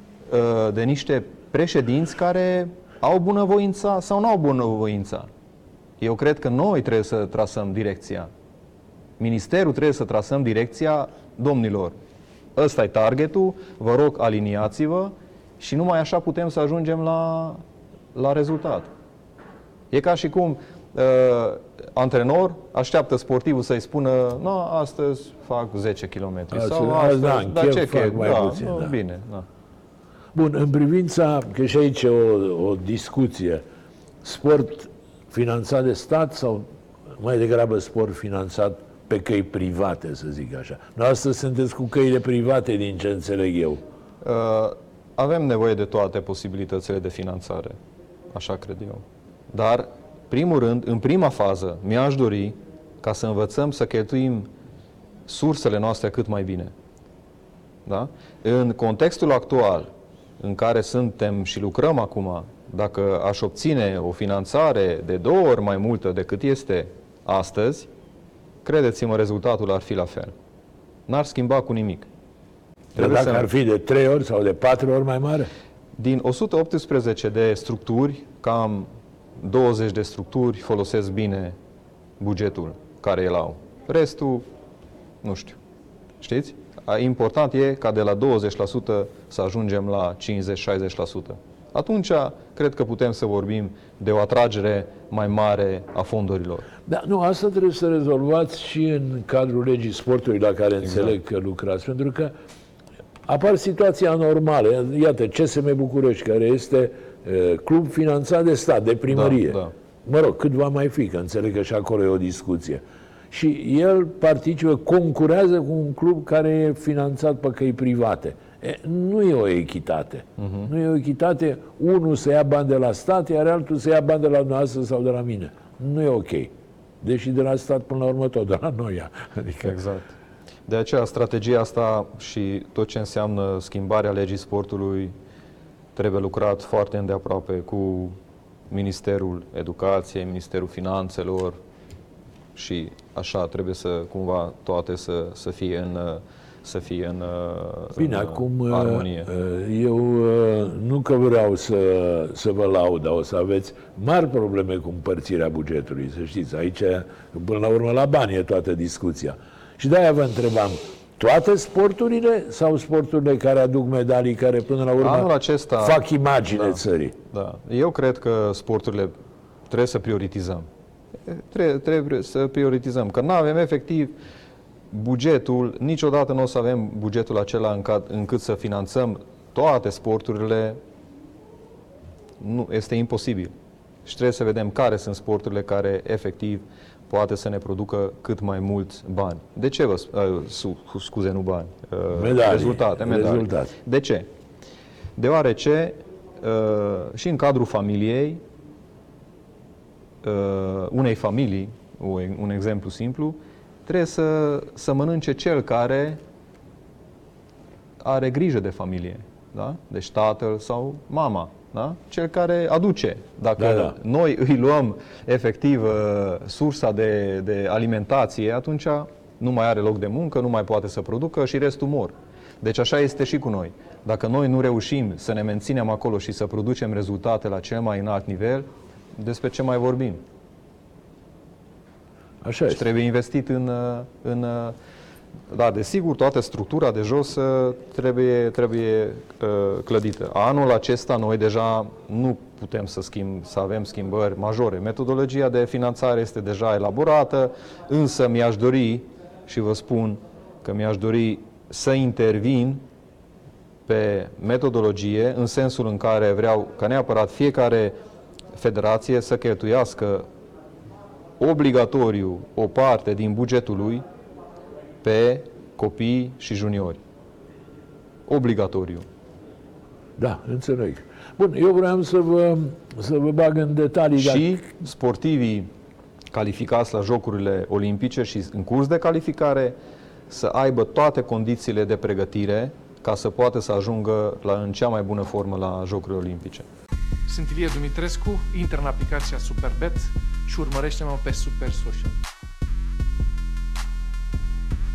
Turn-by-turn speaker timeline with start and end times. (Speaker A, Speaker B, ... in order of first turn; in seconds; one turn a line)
Speaker A: 0.3-5.3
Speaker A: 6.0-8.3
Speaker A: 9.2-12.0
Speaker A: 12.6-17.6
Speaker A: 18.1-18.9
Speaker A: 19.9-29.5
Speaker B: 26.5-28.9
Speaker B: 30.3-33.6
Speaker B: 34.2-43.8
Speaker A: 44.2-47.8
Speaker A: 48.3-54.5
Speaker A: 55.3-56.7
Speaker A: 57.9-59.9
Speaker A: 60.4-67.9
Speaker A: 68.7-70.3
Speaker A: 71.1-72.1
Speaker A: 73.0-73.5
Speaker B: 73.0-75.5
Speaker A: 76.0-81.6
Speaker A: 82.2-84.5
Speaker A: 85.2-85.6
Speaker A: 86.2-96.7
Speaker B: 96.9-102.3
Speaker A: 100.8-101.2
Speaker B: 103.3-129.8
Speaker A: 109.1-109.7
Speaker A: 120.4-120.7
Speaker A: 129.6-130.2
Speaker A: 130.7-135.1
Speaker A: 136.0-138.2
Speaker A: 138.7-141.6
Speaker A: 142.6-149.3
Speaker B: 148.0-167.2
Speaker A: 165.0-166.1
Speaker A: 166.6-169.1
Speaker A: 169.7-170.7
Speaker A: 171.2-174.1
Speaker A: 174.9-180.8
Speaker A: 182.4-183.5
Speaker A: 184.1-194.3
Speaker B: 192.1-193.7
Speaker A: 195.2-198.4
Speaker A: 200.2-206.2
Speaker A: 208.0-230.2
Speaker B: 213.6-214.0
Speaker B: 232.4-232.8
Speaker A: 232.7-234.8
Speaker A: 235.5-252.8
Speaker A: 253.9-257.9
Speaker A: 258.5-260.3
Speaker A: 261.4-264.0
Speaker A: 265.0-267.0
Speaker A: 268.3-269.1
Speaker B: 270.2-274.7
Speaker A: 274.2-275.7
Speaker A: 276.3-279.8
Speaker A: 280.3-286.7
Speaker C: 287.3-292.2